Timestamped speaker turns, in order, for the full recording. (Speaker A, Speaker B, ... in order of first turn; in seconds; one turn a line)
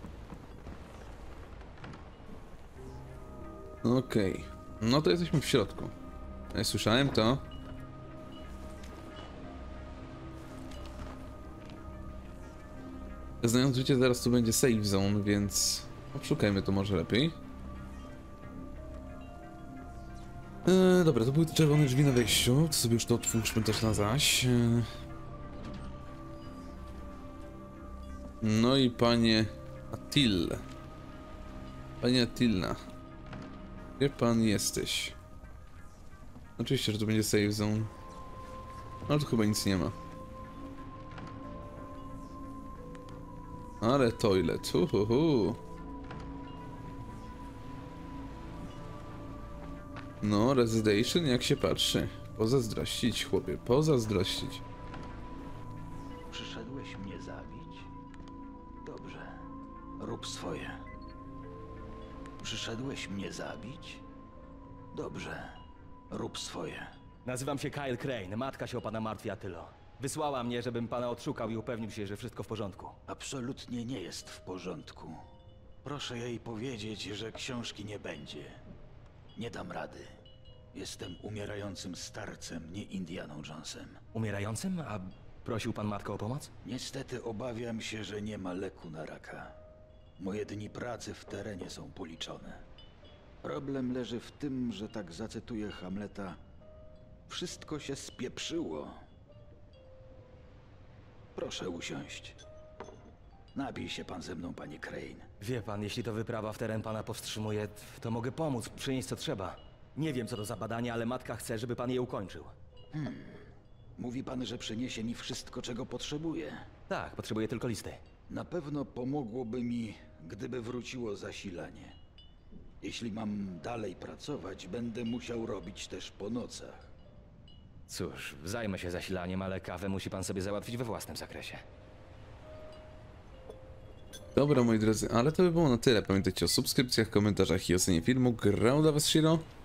Speaker A: 3.8-5.9
Speaker A: 6.5-7.4
Speaker A: 13.4-17.4
Speaker A: 20.6-24.9
Speaker A: 28.4-30.6
Speaker A: 32.0-32.8
Speaker A: 34.0-35.1
Speaker A: 36.6-37.9
Speaker A: 39.1-39.9
Speaker A: 43.8-45.6
Speaker A: 50.2-54.6
Speaker B: 56.3-57.9
Speaker B: 58.8-59.5
Speaker B: 60.0-60.8
Speaker B: 62.4-64.0
Speaker B: 64.9-66.9
Speaker C: 67.2-73.0
Speaker B: 73.1-75.2
Speaker B: 75.8-78.6
Speaker B: 79.3-80.1
Speaker B: 80.7-84.0
Speaker C: 84.1-86.5
Speaker B: 86.6-89.5
Speaker B: 90.2-92.6
Speaker B: 93.4-96.4
Speaker B: 97.3-99.0
Speaker B: 101.3-102.4
Speaker B: 103.5-105.3
Speaker C: 105.4-112.5
Speaker B: 112.9-113.4
Speaker B: 114.0-116.7
Speaker C: 116.9-118.0
Speaker B: 118.3-122.0
Speaker B: 122.8-126.9
Speaker C: 127.9-131.6
Speaker A: 134.3-139.4